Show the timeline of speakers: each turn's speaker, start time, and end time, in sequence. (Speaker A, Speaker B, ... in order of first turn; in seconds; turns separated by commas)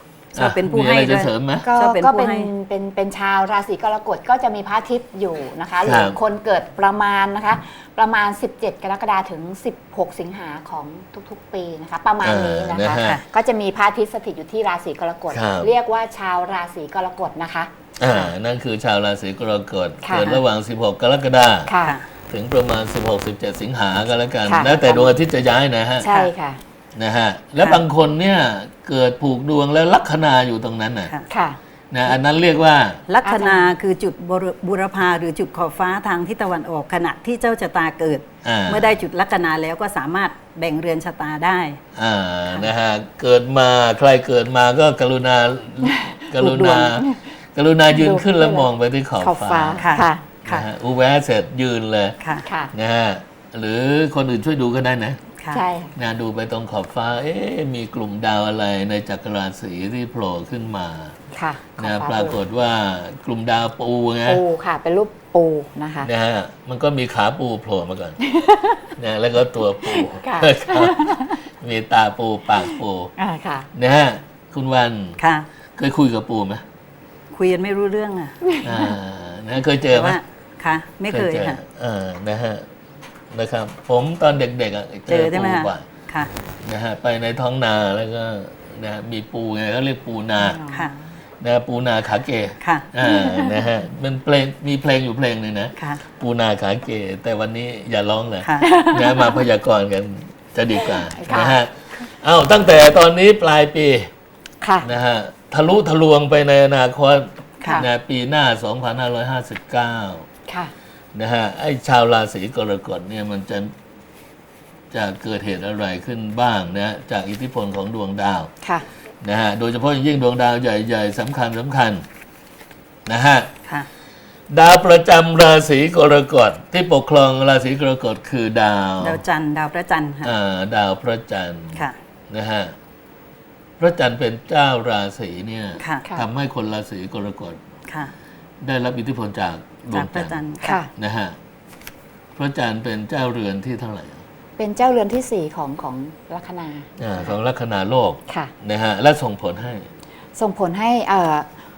Speaker A: 0.3-2.5, Speaker B: 0.4-1.7, Speaker C: 1.6-18.3, Speaker B: 5.8-6.2, Speaker B: 12.2-13.2, Speaker B: 15.3-15.7, Speaker B: 18.0-21.7, Speaker C: 21.7-22.0, Speaker B: 22.3-26.1, Speaker C: 24.5-25.1, Speaker C: 26.0-26.6, Speaker B: 27.0-31.1, Speaker C: 31.3-31.6, Speaker B: 31.9-33.0, Speaker A: 33.1-41.8, Speaker C: 33.2-33.7, Speaker B: 38.4-39.0, Speaker B: 41.9-49.8, Speaker C: 45.8-47.4, Speaker C: 47.9-50.2, Speaker A: 49.8-50.7, Speaker B: 50.5-52.2, Speaker A: 52.2-52.5, Speaker C: 52.5-52.7, Speaker B: 52.7-55.2, Speaker C: 55.5-56.0, Speaker B: 56.0-61.2, Speaker C: 61.3-62.4, Speaker B: 61.8-64.4, Speaker C: 64.3-66.1, Speaker B: 66.0-68.2, Speaker C: 68.3-68.9, Speaker B: 69.0-73.1, Speaker C: 69.9-71.4, Speaker C: 73.2-73.7, Speaker B: 73.7-75.2, Speaker A: 75.2-75.5, Speaker B: 75.8-76.6, Speaker A: 77.3-78.4, Speaker B: 78.6-80.2, Speaker A: 79.9-81.6, Speaker B: 81.1-82.7, Speaker B: 83.3-85.9, Speaker A: 85.1-86.3, Speaker B: 86.6-90.6, Speaker C: 90.4-91.0, Speaker A: 90.7-91.0, Speaker B: 91.4-104.1, Speaker A: 92.6-92.9, Speaker C: 93.0-93.6, Speaker A: 95.8-96.0, Speaker A: 98.4-98.7, Speaker C: 98.6-99.4, Speaker C: 100.8-101.6, Speaker C: 104.6-104.9, Speaker B: 104.8-110.3, Speaker C: 110.5-110.7, Speaker B: 111.1-113.7, Speaker B: 114.9-118.5, Speaker B: 119.2-122.0, Speaker B: 123.1-123.5, Speaker B: 124.5-129.2, Speaker A: 129.0-130.3, Speaker B: 130.2-132.8, Speaker B: 133.8-137.6, Speaker A: 135.8-136.1, Speaker A: 137.9-138.1, Speaker B: 138.6-140.4, Speaker A: 139.9-140.8, Speaker C: 140.6-140.9, Speaker B: 140.9-141.4, Speaker B: 142.4-144.2, Speaker C: 144.6-147.3, Speaker B: 147.0-149.9, Speaker C: 150.3-151.5